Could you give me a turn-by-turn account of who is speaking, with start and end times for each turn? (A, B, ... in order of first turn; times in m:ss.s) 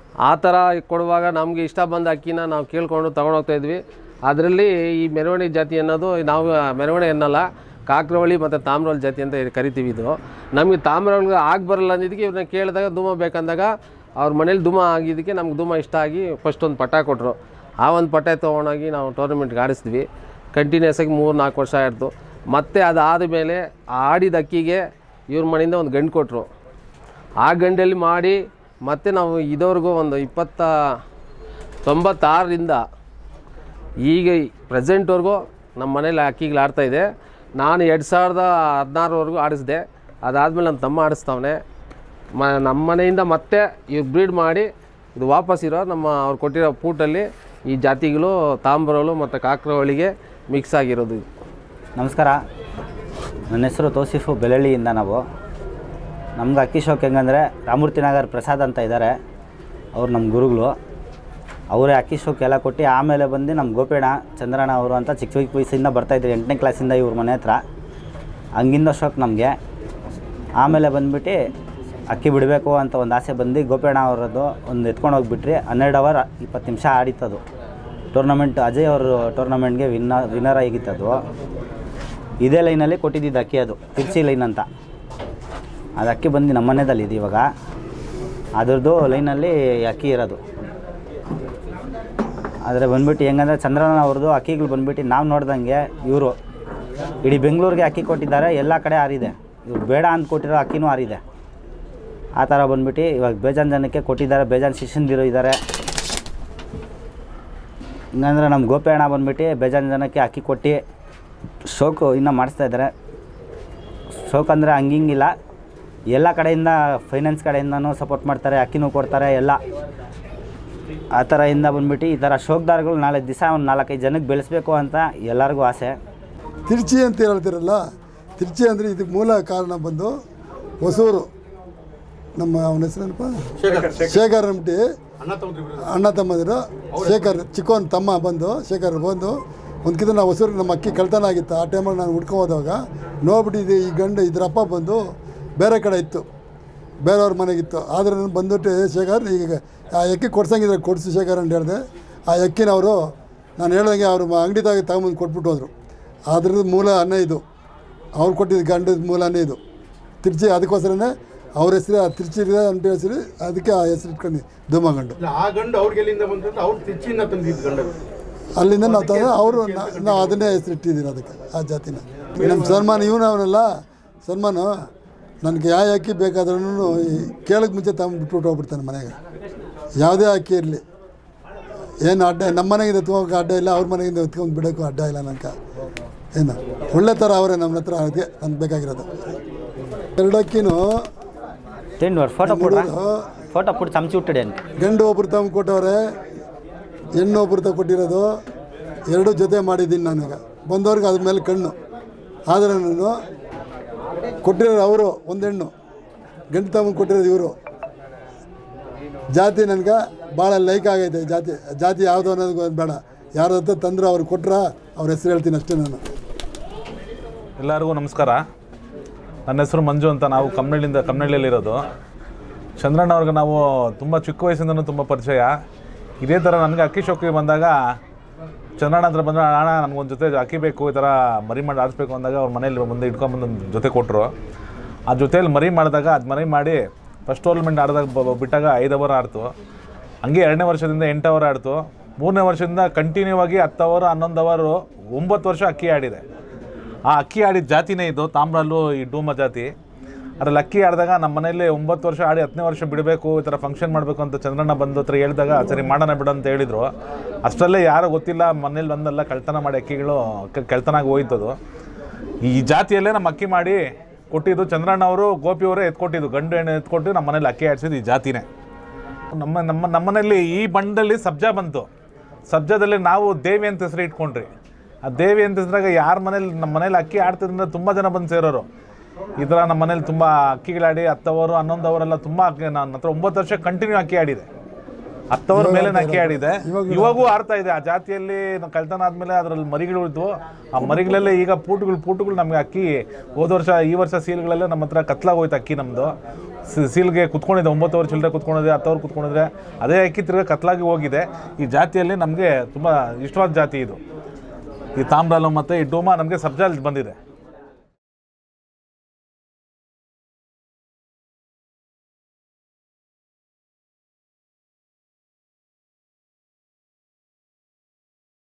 0:00.2-0:26.5 A
0:27.4-0:30.7 A
0:31.8-0:32.8 A
0:34.0-0:41.6 A
0:42.4-0:51.2 A
0:52.0-0:52.4 B
0:53.5-0:55.2 B
0:56.4-0:59.2 B
1:00.0-1:00.8 B
1:01.7-1:07.6 B
1:08.6-1:09.6 B
1:10.6-1:11.4 B
1:12.1-1:17.4 B
1:18.1-1:21.2 B
1:22.4-1:24.6 B
1:26.0-1:27.5 B
1:28.6-1:30.4 B
1:32.6-1:36.4 B
1:37.2-1:41.2 B
1:42.4-1:45.6 B
1:48.2-1:50.8 B
1:51.7-1:52.9 B
1:54.2-1:55.3 B
1:56.1-1:59.6 B
2:01.1-2:06.0 B
2:06.6-2:07.8 C
2:08.4-2:10.1 C
2:10.8-2:11.3 C
2:12.4-2:14.8 C
2:13.6-2:14.2 D
2:15.2-2:15.9 D
2:15.8-2:26.3 C
2:16.9-2:17.4 D
2:27.0-2:35.7 C
2:36.3-2:37.4 C
2:38.2-2:39.6 C
2:40.2-2:45.2 C
2:45.2-2:48.0 D
2:48.6-2:53.7 C
2:48.8-2:50.4 D
2:52.3-2:53.1 D
2:54.2-2:54.7 C
2:55.4-2:59.2 C
3:00.0-3:00.8 C
3:02.0-3:05.5 C
3:06.3-3:09.2 C
3:10.2-3:11.0 C
3:12.0-3:12.9 B
3:12.4-3:13.3 C
3:13.5-3:14.6 B
3:14.8-3:16.0 C
3:17.2-3:18.3 C
3:19.1-3:21.8 C
3:22.5-3:23.2 C
3:24.4-3:25.7 C
3:26.5-3:27.5 C
3:29.3-3:36.0 C
3:37.6-3:38.4 E
3:39.5-3:41.8 E
3:42.8-3:45.5 E
3:46.2-3:47.8 E
3:48.8-3:54.3 E
3:55.1-3:59.5 E
4:00.2-4:06.2 E
4:07.1-4:09.7 E
4:10.4-4:16.9 E
4:17.4-4:21.6 E
4:22.4-4:28.4 E
4:29.3-4:31.9 E
4:32.5-4:34.5 E
4:35.0-4:38.6 E
4:39.4-4:44.5 E
4:45.3-4:56.1 E
4:45.5-4:47.2 C
4:56.7-5:04.0 E
5:05.0-5:07.2 E